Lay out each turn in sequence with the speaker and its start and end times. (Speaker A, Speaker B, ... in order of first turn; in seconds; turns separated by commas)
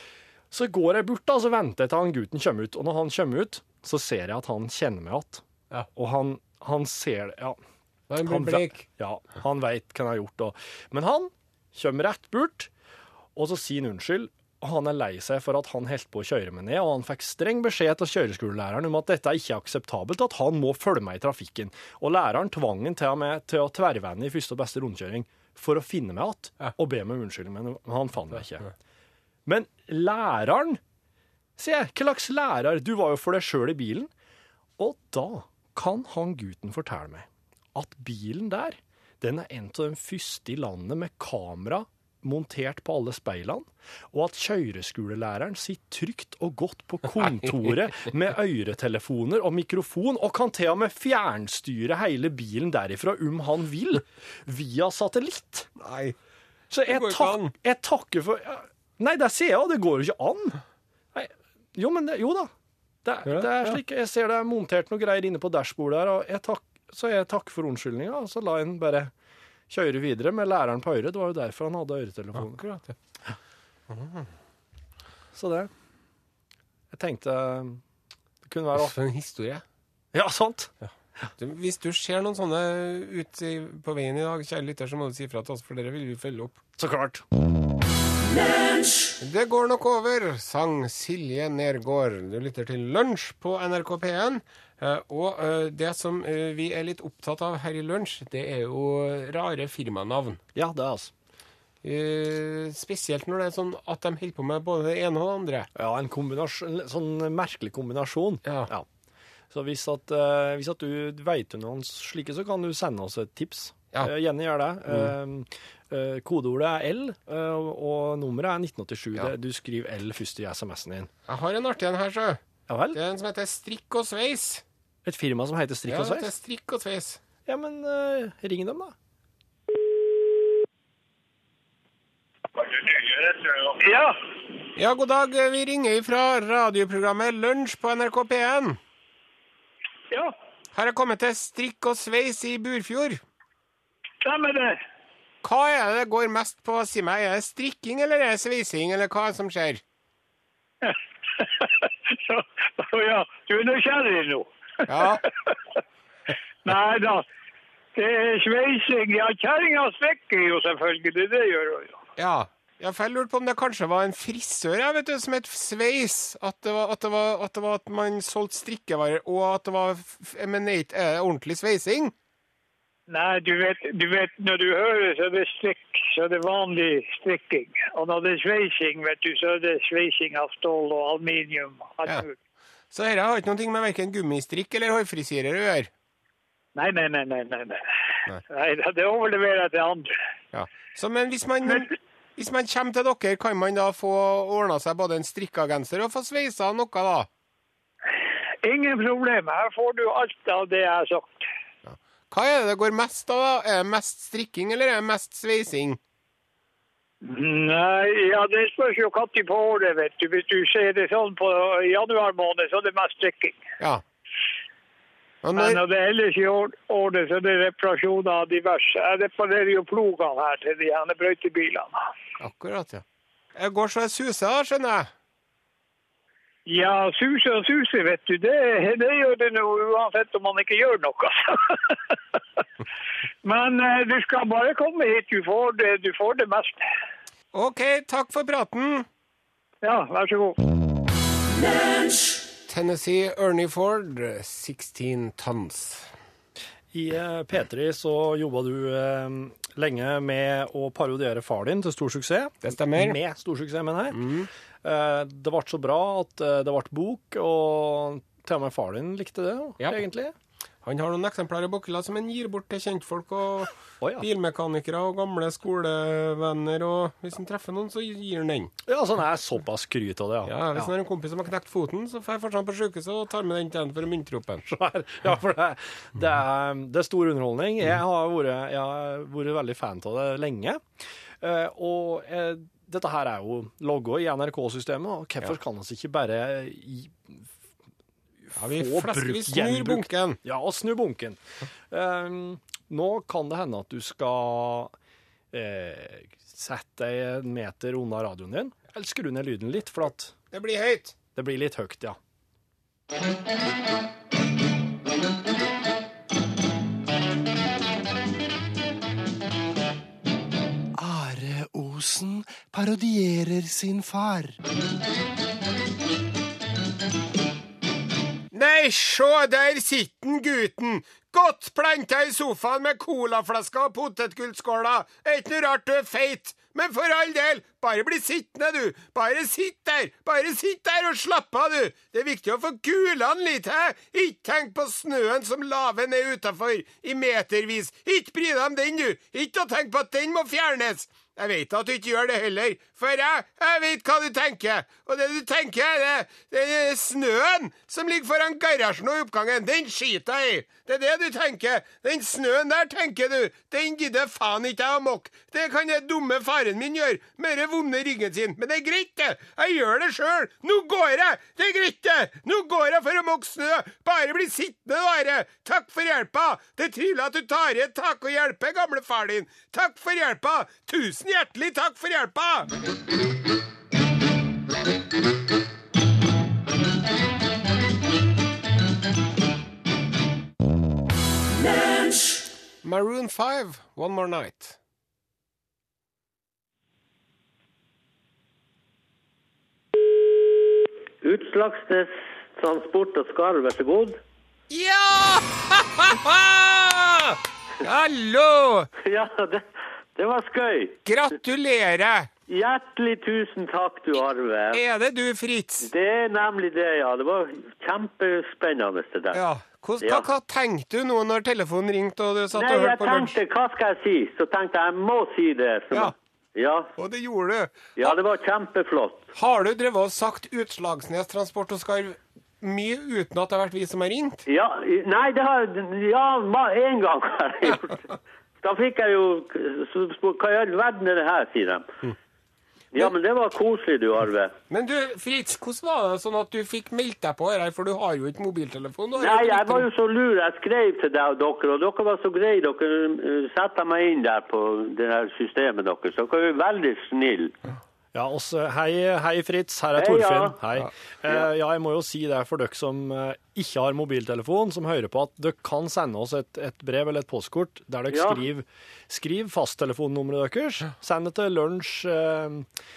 Speaker A: 0.5-5.4, Speaker A: 6.0-7.6, Speaker B: 8.1-8.8, Speaker A: 8.2-12.7, Speaker A: 13.4-28.7, Speaker A: 29.5-30.8, Speaker A: 31.6-34.1, Speaker A: 34.8-55.7, Speaker B: 55.8-56.2, Speaker A: 56.7-60.6, Speaker B: 56.9-57.5, Speaker A: 61.1-62.5, Speaker A: 63.0-69.1, Speaker B: 63.2-63.8, Speaker A: 69.7-72.6, Speaker B: 72.3-72.9, Speaker B: 73.9-74.3, Speaker A: 75.3-75.7, Speaker A: 76.9-77.8, Speaker A: 78.5-78.9, Speaker B: 78.8-79.6, Speaker A: 80.1-80.7, Speaker B: 81.4-86.6, Speaker A: 86.8-87.2, Speaker B: 89.2-100.4, Speaker A: 100.5-101.1, Speaker B: 101.8-105.7, Speaker A: 105.8-108.9, Speaker B: 108.5-108.7, Speaker A: 109.5-121.1, Speaker B: 121.3-122.4, Speaker A: 122.7-123.0, Speaker B: 122.9-124.6, Speaker A: 125.0-126.3, Speaker B: 125.9-127.2, Speaker A: 127.5-128.9, Speaker C: 132.6-134.2, Speaker B: 134.8-138.8, Speaker B: 140.7-143.2, Speaker C: 144.2-144.8, Speaker B: 145.4-149.8, Speaker C: 150.8-155.6, Speaker B: 154.9-155.2, Speaker C: 156.6-157.2, Speaker C: 157.9-162.0, Speaker B: 162.2-172.1, Speaker C: 173.1-182.3, Speaker B: 182.9-185.9, Speaker C: 186.8-187.8, Speaker C: 188.5-190.1, Speaker B: 190.5-197.3, Speaker C: 198.6-201.4, Speaker B: 201.9-206.0, Speaker C: 207.2-213.6, Speaker B: 215.4-215.8, Speaker C: 215.5-222.0, Speaker B: 222.4-223.0, Speaker B: 223.6-225.1, Speaker C: 226.7-232.4, Speaker C: 233.4-236.8, Speaker B: 237.5-239.1, Speaker C: 239.8-240.6, Speaker B: 242.7-246.1, Speaker A: 246.9-254.2, Speaker B: 252.6-253.2, Speaker B: 254.1-254.5, Speaker A: 254.8-260.3, Speaker B: 260.8-268.7, Speaker A: 264.0-264.3, Speaker A: 268.9-270.9, Speaker B: 270.5-274.7, Speaker A: 274.7-280.8, Speaker A: 281.4-287.4, Speaker A: 288.5-291.4, Speaker B: 288.6-290.4, Speaker A: 291.9-294.9, Speaker A: 295.5-300.4, Speaker B: 300.5-301.2, Speaker A: 301.4-302.2, Speaker D: 311.0-314.6, Speaker B: 318.5-372.7, Speaker B: 382.8-384.8, Speaker E: 391.2-394.2, Speaker B: 394.7-398.9, Speaker E: 399.0-399.6, Speaker E: 400.2-401.0, Speaker B: 401.0-402.3, Speaker E: 402.5-404.8, Speaker B: 404.7-405.9, Speaker E: 405.8-409.4, Speaker B: 409.3-413.4, Speaker E: 412.5-416.9, Speaker B: 417.0-418.2, Speaker E: 418.0-419.2, Speaker B: 419.4-424.5, Speaker E: 424.5-431.9, Speaker E: 432.9-434.5, Speaker B: 434.7-439.9, Speaker E: 439.2-447.5, Speaker A: 448.1-462.7, Speaker E: 450.0-450.5, Speaker E: 458.1-458.4